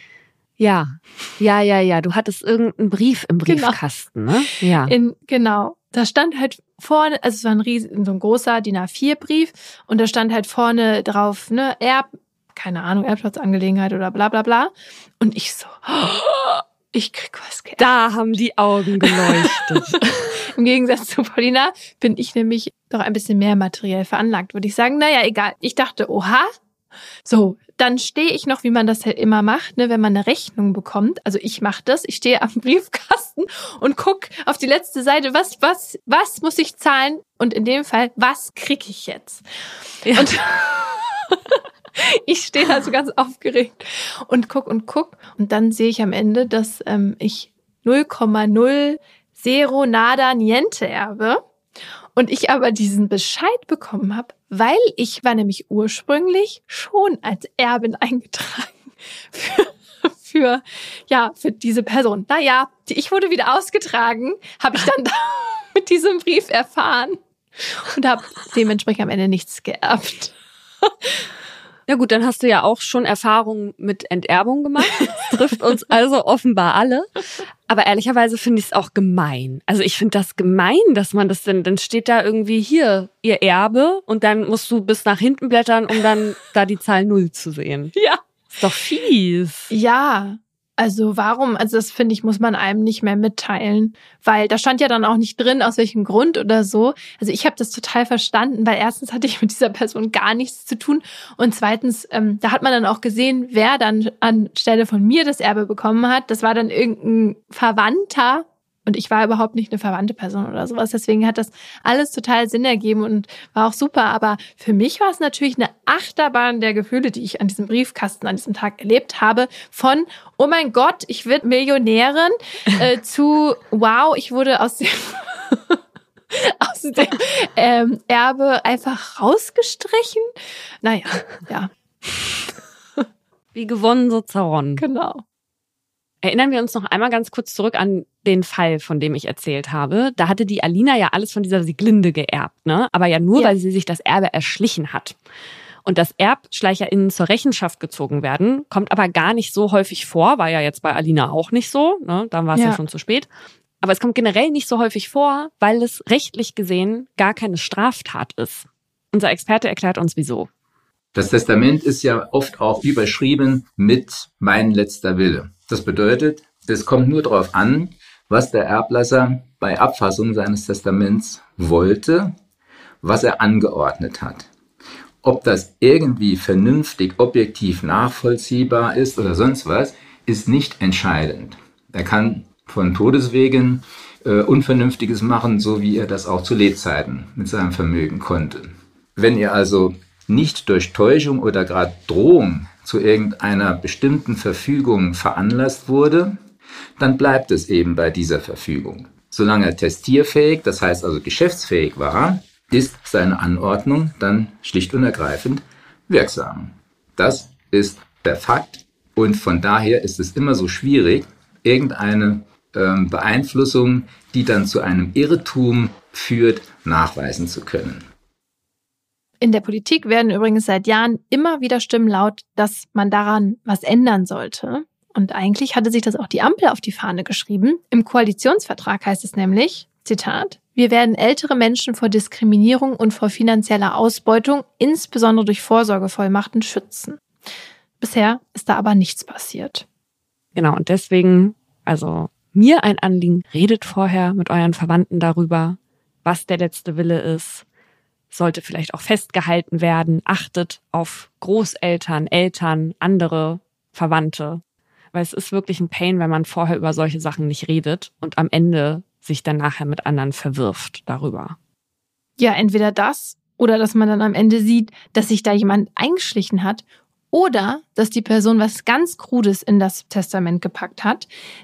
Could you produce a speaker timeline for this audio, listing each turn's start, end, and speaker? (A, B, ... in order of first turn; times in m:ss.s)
0:00.6-0:05.0 A
0:03.5-0:03.8 B
0:04.8-0:17.9 B
0:17.8-0:20.4 A
0:19.0-0:26.5 B
0:27.2-0:39.4 B
0:40.0-0:40.4 A
0:40.2-0:51.4 B
0:52.2-1:11.1 B
1:11.9-1:17.1 A
1:17.7-1:28.0 A
1:28.0-1:28.2 B
1:28.5-1:29.7 A
1:29.7-2:12.5 B
2:13.5-2:14.8 A
2:14.8-2:15.2 B
2:16.2-2:25.2 A
2:25.8-2:33.3 A
2:32.5-2:32.8 B
2:33.8-2:40.5 A
2:41.2-2:52.4 C
2:53.0-2:54.5 C
2:55.2-3:16.4 C
3:17.0-3:38.0 C
3:39.4-3:57.2 B
3:58.0-3:59.9 B
4:00.6-4:07.6 A
4:08.3-4:14.6 A
4:15.1-4:21.6 A
4:22.4-4:31.3 B